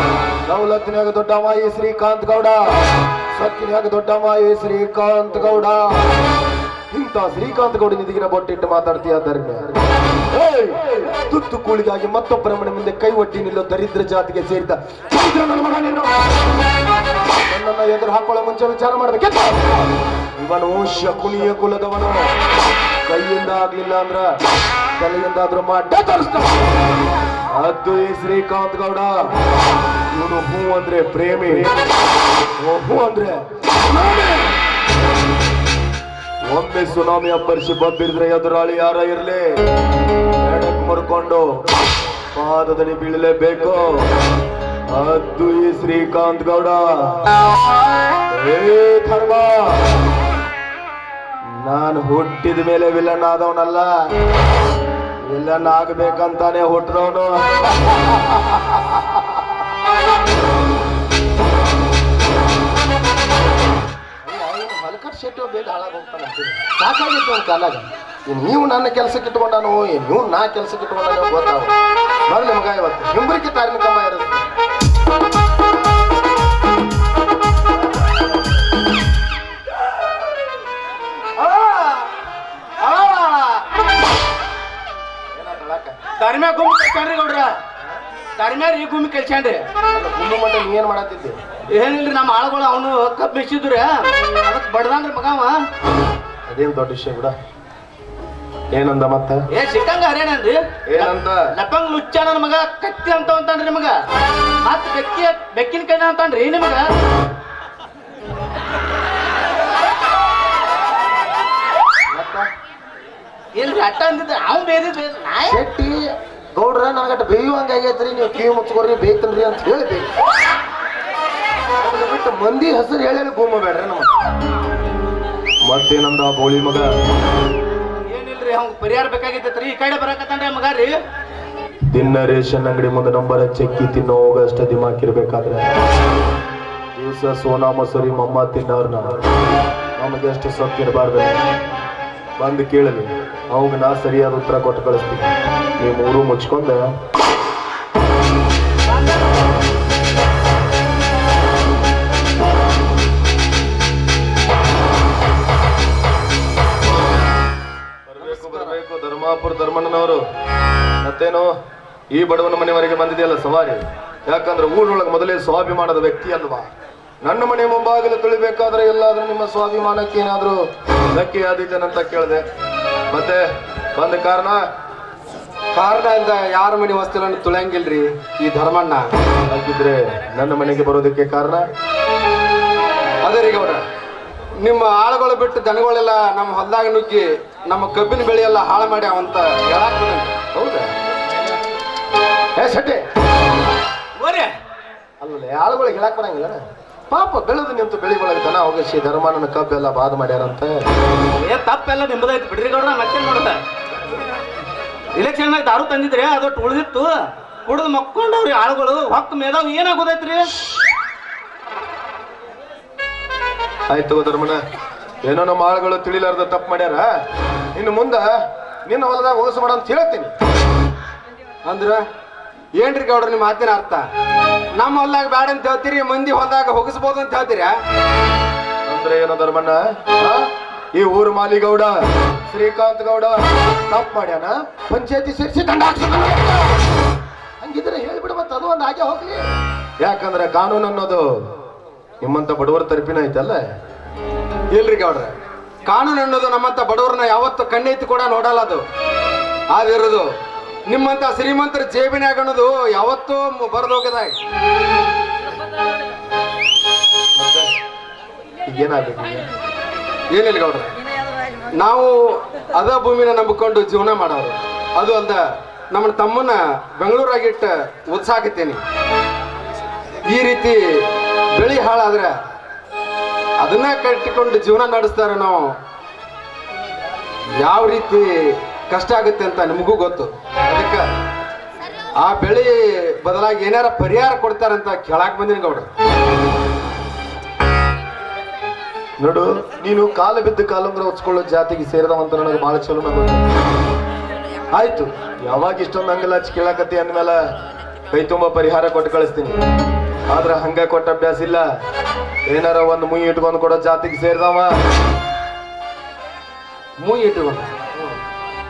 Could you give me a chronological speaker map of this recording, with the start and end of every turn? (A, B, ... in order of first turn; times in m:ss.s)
0:00.4-0:02.6 A
0:03.3-0:06.0 A
0:06.9-0:09.8 A
0:10.3-0:16.4 A
0:17.5-0:19.6 A
0:20.4-0:22.3 A
0:23.0-0:24.3 A
0:25.0-0:26.6 A
0:27.5-0:29.1 A
0:30.1-0:31.7 A
0:32.6-0:34.5 A
0:36.5-0:39.5 A
0:40.4-0:41.5 A
0:42.3-0:44.1 A
0:44.9-0:47.2 A
0:48.3-0:49.9 A
0:51.6-0:53.9 A
0:55.2-0:57.4 A
1:04.2-1:11.8 A
1:12.3-1:14.5 A
1:21.4-1:22.1 B
1:22.8-1:23.6 B
1:25.3-1:26.0 A
1:26.2-1:27.6 B
1:28.4-1:29.6 B
1:29.9-1:31.4 A
1:31.7-1:35.6 B
1:36.5-1:37.4 A
1:38.7-1:39.4 A
1:39.5-1:44.0 B
1:40.9-1:41.5 A
1:44.6-1:46.9 B
1:52.1-1:52.5 A
1:53.6-1:55.6 B
1:55.4-1:56.0 A
1:56.6-2:00.1 A
2:01.8-2:04.1 A
2:05.6-2:06.9 A
2:08.0-2:11.0 B
2:11.9-2:15.7 A
2:17.0-2:19.2 A
2:20.0-2:21.4 A
2:22.4-2:26.9 A
2:38.1-2:40.2 A
2:38.2-2:38.8 C
2:41.0-2:41.5 A
2:42.1-2:46.7 A
2:47.2-2:50.6 A
2:51.1-2:52.4 A
2:53.1-2:53.4 A
2:53.9-2:54.6 A
2:55.7-2:59.1 C
2:59.5-3:01.6 A
3:03.2-3:03.8 C
3:04.6-3:10.4 C
3:10.5-3:10.9 A
3:12.6-3:13.0 A
3:14.2-3:14.5 B
3:15.2-3:20.8 A
3:21.4-3:23.6 B
3:25.1-3:27.1 B
3:27.7-3:30.6 B
3:33.9-3:34.6 A
3:35.2-3:37.1 A
3:37.8-3:38.3 A
3:38.9-3:40.3 A
3:41.6-3:42.0 C
3:42.8-3:44.1 C
3:44.8-3:47.8 C
3:48.9-3:56.8 A
3:57.6-3:59.4 A
4:00.0-4:01.3 A
4:02.2-4:03.6 A
4:04.7-4:05.3 C
4:05.9-4:08.8 C
4:09.7-4:10.3 C
4:10.9-4:14.4 C
4:17.4-4:17.7 A
4:18.7-4:19.5 A
4:20.3-4:20.9 C
4:21.8-4:28.8 C
4:30.3-4:31.0 C
4:31.6-4:32.4 C
4:33.6-4:35.8 C
4:37.6-4:41.1 C
4:42.2-4:45.9 C
4:49.2-4:53.4 A
4:54.7-4:57.4 A
4:58.1-4:59.6 A
5:00.3-5:01.7 A
5:02.5-5:04.8 A
5:07.0-5:07.7 C